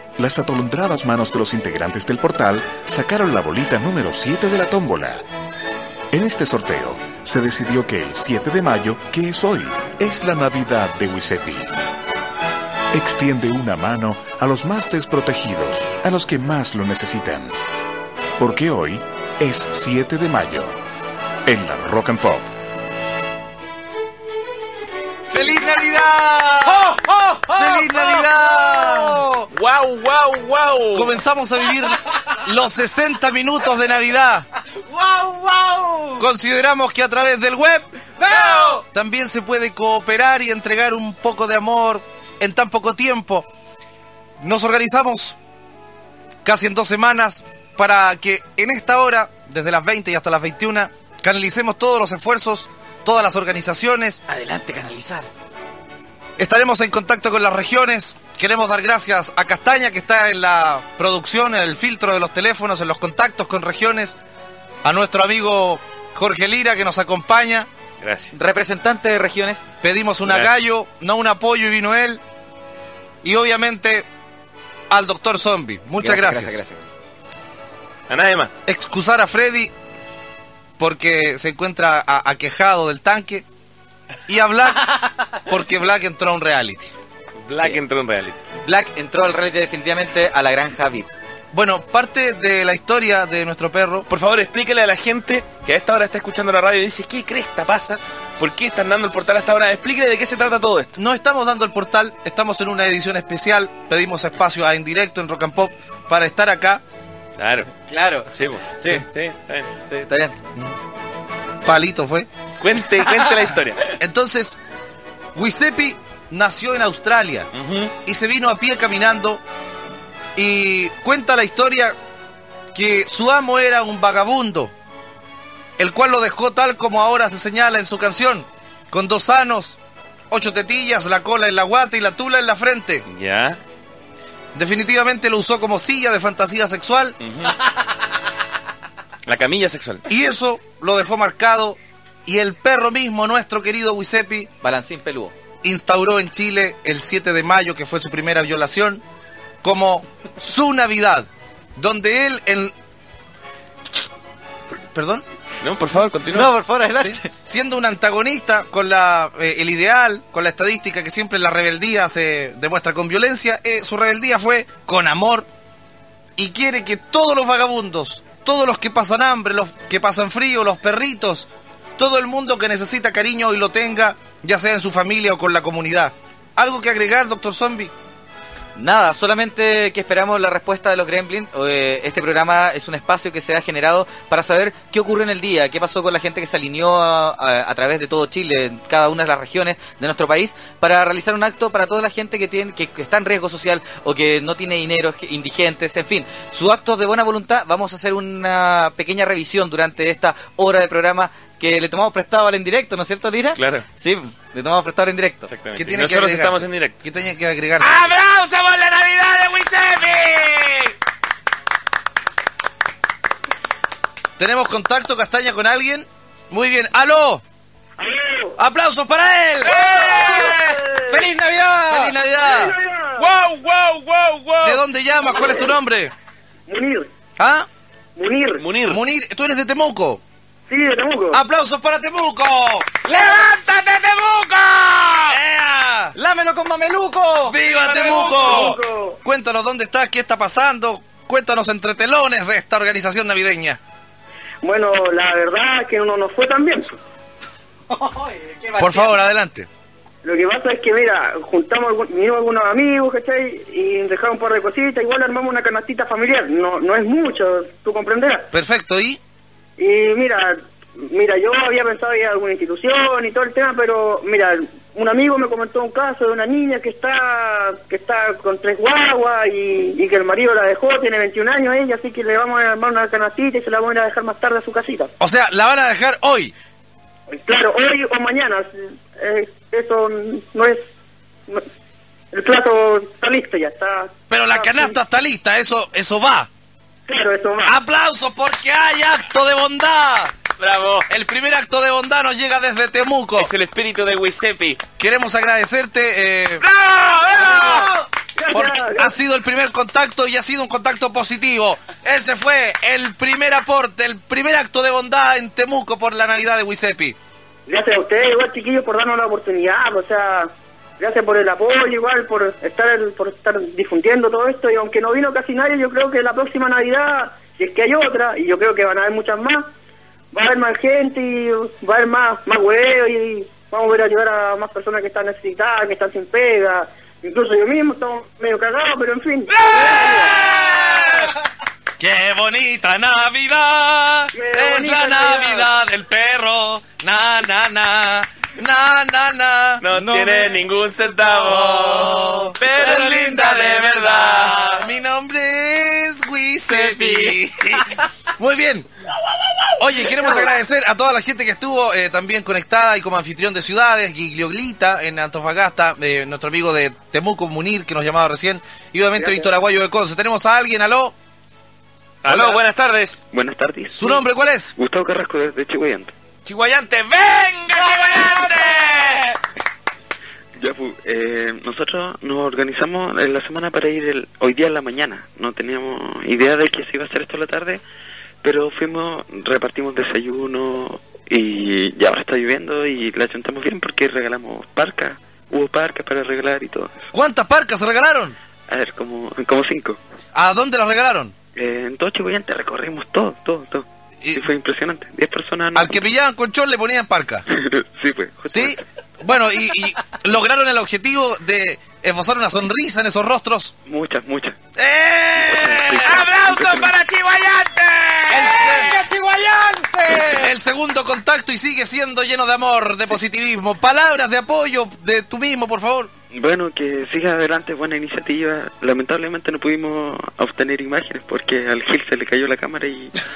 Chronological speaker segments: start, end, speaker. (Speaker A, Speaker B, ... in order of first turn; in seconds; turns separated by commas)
Speaker A: 0.2-5.2, Speaker A: 6.1-11.7, Speaker A: 12.9-17.6, Speaker A: 18.4-20.8, Speaker A: 21.4-22.5, Speaker B: 25.3-26.9, Speaker B: 27.5-29.5, Speaker C: 29.5-31.2, Speaker B: 30.9-34.5, Speaker D: 35.1-36.2, Speaker B: 36.2-43.5, Speaker B: 44.4-45.4, Speaker B: 46.4-54.2, Speaker D: 54.3-55.3, Speaker B: 56.4-64.2, Speaker B: 64.8-67.7, Speaker C: 68.0-68.3, Speaker D: 68.3-69.6, Speaker B: 69.8-72.2, Speaker C: 70.2-70.5, Speaker B: 73.2-74.1, Speaker B: 74.9-76.6, Speaker D: 76.0-76.9, Speaker C: 78.1-78.5, Speaker B: 78.7-79.7, Speaker B: 80.8-83.5, Speaker B: 84.3-84.9, Speaker B: 85.5-86.9, Speaker C: 87.4-88.4, Speaker D: 88.7-91.1, Speaker B: 91.5-94.1, Speaker C: 94.1-100.9, Speaker B: 101.0-106.8, Speaker C: 107.4-107.7, Speaker D: 107.9-109.0, Speaker C: 108.3-109.7, Speaker D: 109.9-110.4, Speaker B: 111.7-112.3, Speaker C: 112.6-113.9, Speaker B: 114.0-114.6, Speaker B: 115.3-117.5, Speaker C: 117.5-117.9, Speaker B: 118.0-119.4, Speaker B: 120.4-122.0, Speaker B: 122.7-124.7, Speaker B: 125.8-129.8, Speaker B: 130.3-133.0, Speaker C: 133.1-133.6, Speaker B: 134.6-137.2, Speaker C: 137.2-137.6, Speaker C: 139.3-140.1, Speaker B: 140.1-144.5, Speaker D: 144.6-145.3, Speaker B: 145.6-149.0, Speaker B: 149.6-152.7, Speaker B: 154.9-155.2, Speaker C: 155.6-156.5, Speaker D: 156.3-157.3, Speaker B: 157.0-165.5, Speaker B: 166.4-177.9, Speaker D: 178.8-205.5, Speaker C: 203.6-203.8, Speaker C: 205.5-207.0, Speaker B: 205.8-208.0, Speaker C: 207.8-210.9, Speaker B: 214.4-217.4, Speaker E: 218.0-218.6, Speaker B: 218.6-219.9, Speaker C: 219.7-220.8, Speaker E: 219.9-221.2, Speaker D: 221.1-222.1, Speaker B: 221.9-222.7, Speaker E: 222.4-223.2, Speaker C: 223.2-224.8, Speaker B: 224.6-226.1, Speaker E: 226.7-227.1, Speaker B: 227.4-227.7, Speaker E: 228.2-228.6, Speaker C: 228.6-229.0, Speaker B: 228.9-230.2, Speaker E: 230.7-231.4, Speaker B: 231.3-232.9, Speaker C: 233.1-235.4, Speaker B: 235.3-236.1, Speaker D: 236.2-237.6, Speaker B: 237.5-243.8, Speaker C: 237.8-238.8, Speaker E: 238.1-239.2, Speaker E: 244.6-247.0, Speaker D: 247.9-249.2, Speaker B: 248.8-249.7, Speaker E: 250.2-258.5, Speaker B: 258.5-259.2, Speaker E: 259.8-275.1, Speaker B: 275.2-276.5, Speaker E: 277.3-280.8, Speaker E: 282.3-284.9, Speaker B: 284.3-286.5, Speaker E: 287.1-287.8, Speaker B: 287.6-290.3, Speaker C: 290.6-291.1, Speaker B: 291.1-293.5, Speaker C: 293.4-294.8, Speaker B: 295.0-296.6, Speaker C: 296.6-297.9, Speaker B: 297.4-297.9, Speaker E: 298.4-299.1, Speaker B: 298.5-307.2, Speaker E: 307.7-319.7, Speaker E: 320.3-330.4, Speaker C: 329.5-331.3, Speaker B: 332.0-340.6, Speaker E: 334.3-335.7, Speaker C: 339.8-344.8, Speaker B: 341.3-343.5, Speaker D: 342.9-343.3, Speaker B: 344.5-348.9, Speaker C: 346.7-347.4, Speaker B: 349.8-361.1, Speaker E: 359.2-359.5, Speaker C: 362.2-363.2, Speaker B: 362.3-362.6, Speaker F: 363.3-364.2, Speaker B: 363.9-364.7, Speaker F: 364.8-366.1, Speaker C: 366.5-369.2, Speaker F: 370.6-377.8, Speaker F: 378.4-387.1, Speaker B: 387.1-388.4, Speaker F: 388.7-390.0, Speaker B: 390.4-391.3, Speaker F: 391.6-396.1, Speaker B: 395.8-397.4, Speaker F: 397.5-398.8, Speaker B: 398.5-403.7, Speaker F: 403.9-404.6, Speaker B: 404.8-406.8, Speaker F: 405.4-406.7, Speaker C: 406.0-410.3, Speaker B: 408.3-409.0, Speaker B: 410.2-416.1, Speaker F: 416.3-423.2